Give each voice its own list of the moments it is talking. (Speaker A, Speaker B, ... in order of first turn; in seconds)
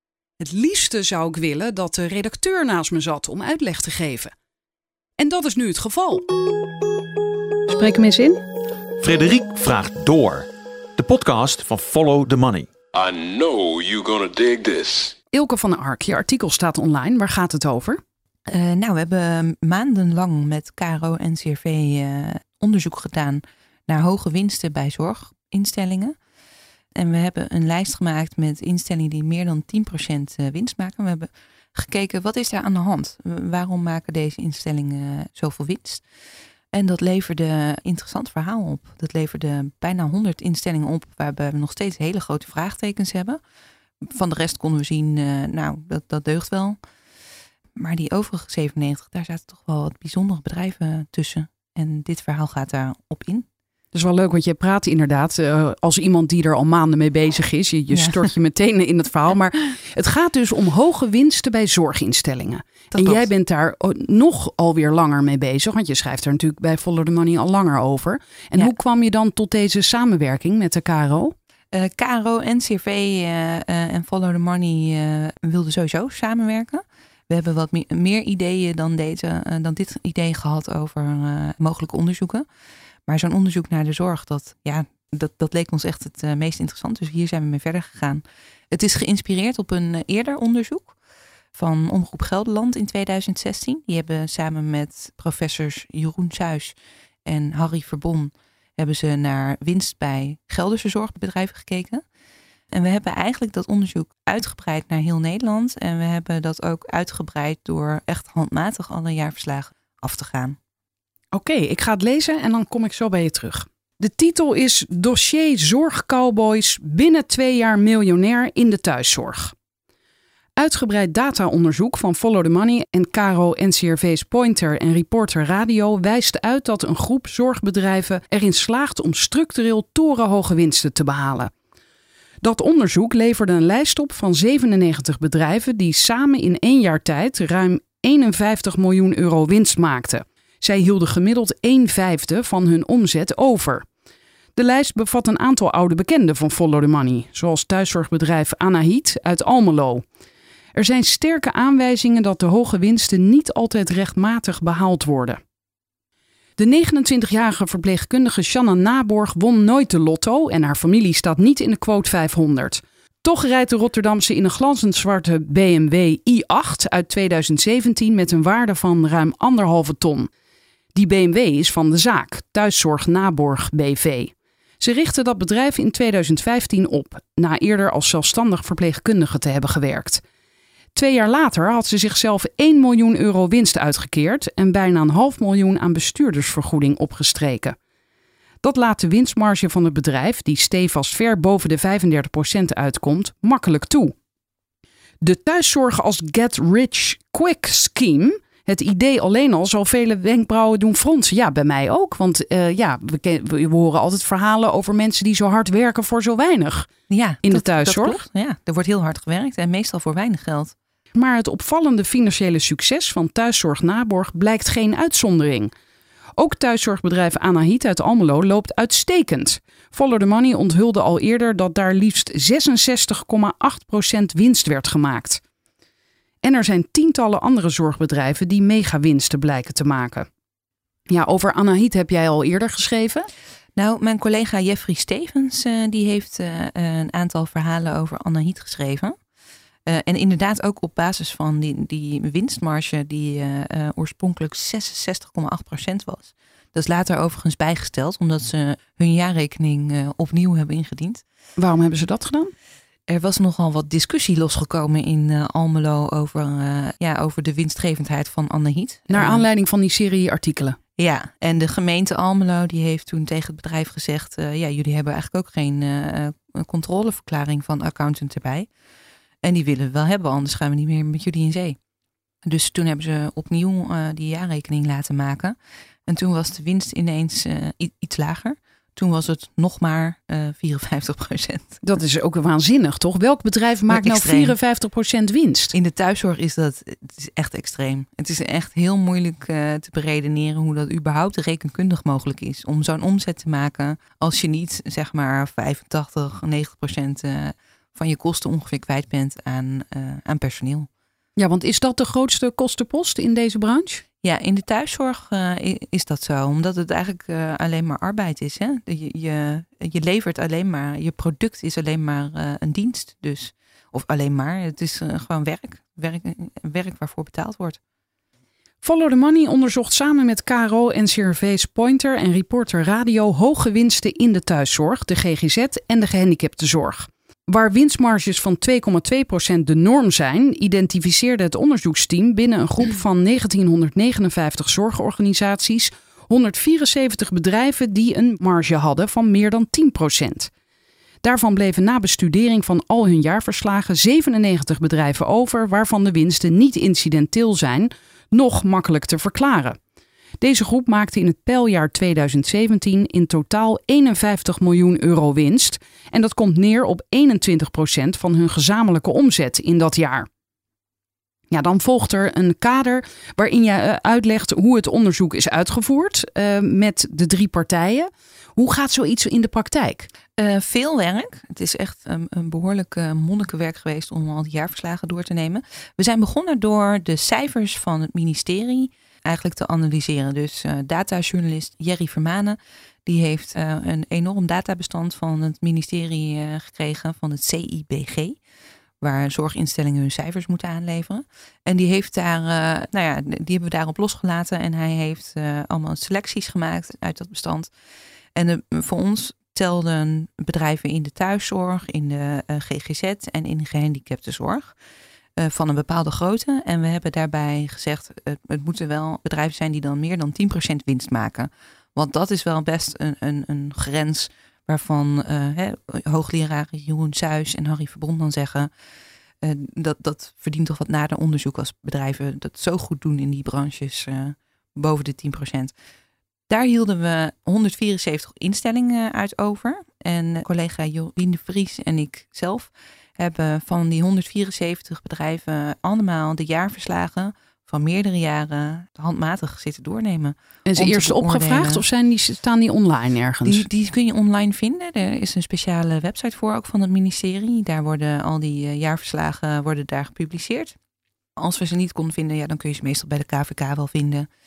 Speaker A: 0.4-4.3, 5.2-6.2, 7.7-8.4, 15.3-18.0, 53.9-71.3, 111.3-119.5, 120.6-131.5, 132.4-143.9, 144.6-150.1, 150.8-155.4, 156.6-170.3, 170.9-180.2, 180.9-187.8, 188.6-194.2, 195.2-206.9, 207.4-208.2, 211.2-215.7, 216.4-225.4, 226.4-230.3, 231.1-233.3, 251.6-252.5, 259.1-260.8, 281.8-285.8, 301.4-304.0, 318.8-340.5, 341.2-349.8, 350.4-360.3, 361.5-370.1, 440.7-443.7
Speaker B: 9.0-10.5, 11.0-12.7
Speaker C: 12.9-15.2
Speaker D: 18.5-26.1, 26.9-36.0, 36.7-43.4, 44.0-46.8, 47.8-53.5, 57.9-58.3, 62.9-63.3, 71.7-82.5, 83.1-91.0, 91.5-102.0, 102.7-110.6, 207.1-210.8, 233.8-239.2, 239.9-251.2, 253.1-259.5, 261.0-268.7, 269.4-271.8, 272.4-275.6, 276.1-281.8, 283.9-284.6, 285.7-300.9, 304.2-317.8, 370.4-388.4, 389.0-397.7, 398.4-404.8, 405.4-418.7, 419.4-425.7, 426.5-441.8, 443.5-450.8, 451.4-454.3